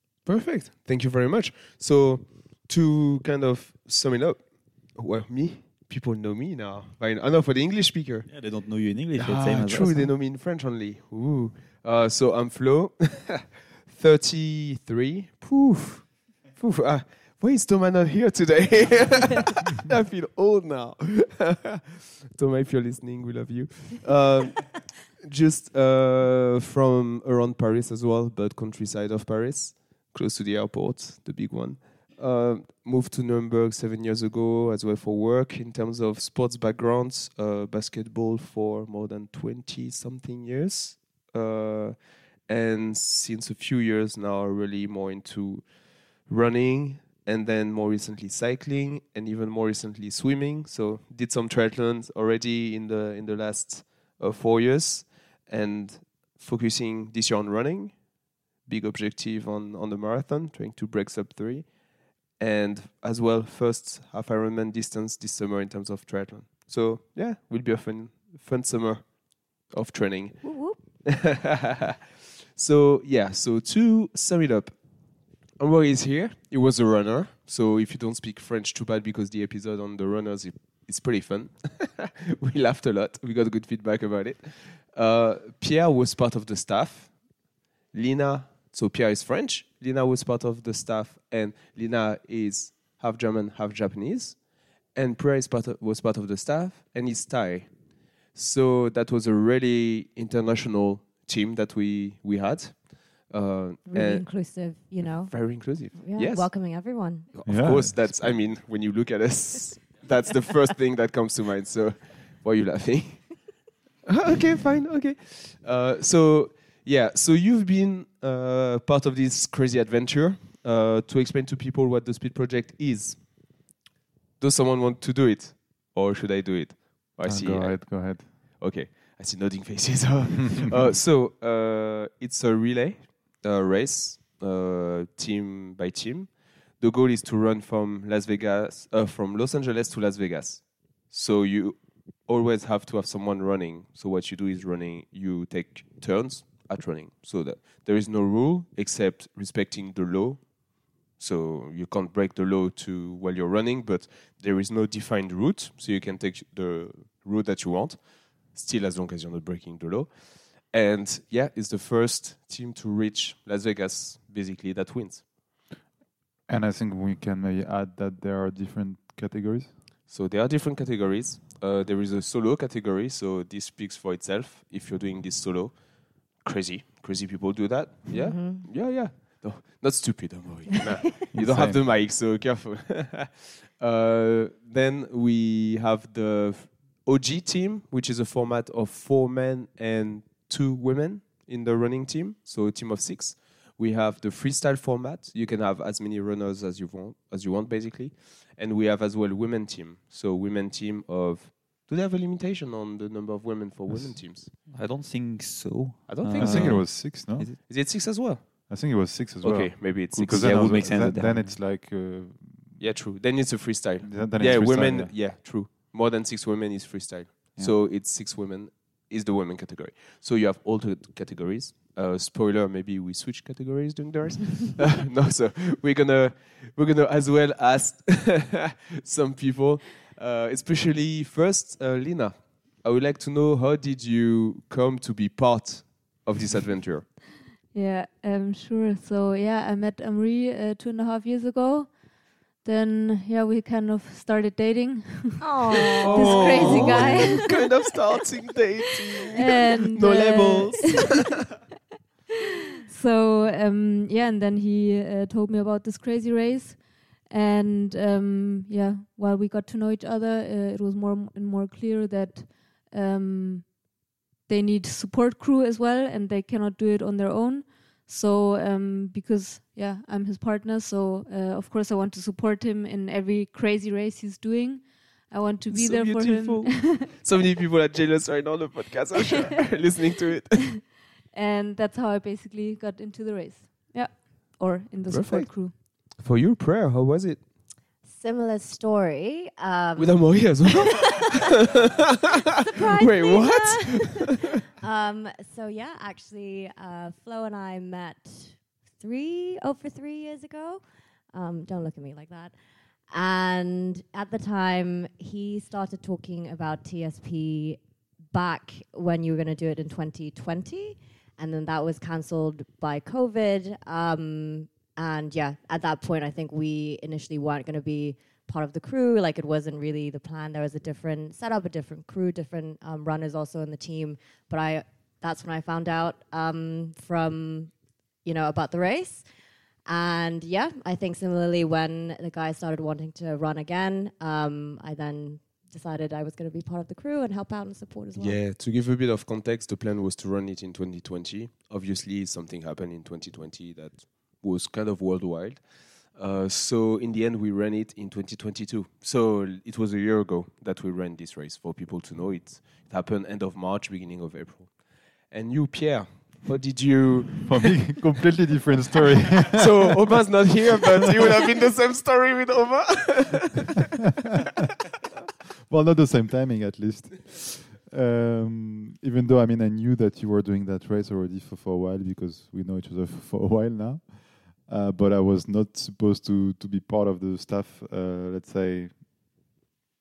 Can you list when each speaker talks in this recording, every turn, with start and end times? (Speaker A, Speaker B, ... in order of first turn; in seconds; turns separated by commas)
Speaker A: 0.2-58.1, Speaker B: 8.3-10.1, Speaker A: 58.6-71.6, Speaker C: 70.4-70.8, Speaker A: 72.5-123.6, Speaker C: 103.9-107.4, Speaker D: 107.5-108.2, Speaker A: 124.4-165.3, Speaker D: 127.2-128.3, Speaker D: 166.5-169.7, Speaker A: 170.1-204.5, Speaker C: 178.1-178.7, Speaker D: 181.3-181.8, Speaker B: 204.4-207.6, Speaker A: 206.1-208.7, Speaker D: 206.3-207.7, Speaker D: 208.7-212.8, Speaker A: 209.4-211.0, Speaker B: 210.2-211.6, Speaker A: 212.8-237.1, Speaker D: 214.0-215.2, Speaker E: 237.7-247.7, Speaker C: 245.4-247.5, Speaker A: 246.0-251.2, Speaker E: 249.3-251.0, Speaker E: 252.9-263.9, Speaker E: 264.4-277.1, Speaker A: 275.7-280.7, Speaker E: 281.3-285.7, Speaker A: 285.1-287.4, Speaker C: 288.0-291.0, Speaker A: 289.9-291.5, Speaker C: 292.6-302.6, Speaker A: 292.9-294.2, Speaker C: 303.1-329.3, Speaker C: 329.9-338.4, Speaker A: 338.2-358.0, Speaker D: 357.5-359.9, Speaker A: 359.5-363.9, Speaker D: 365.7-379.3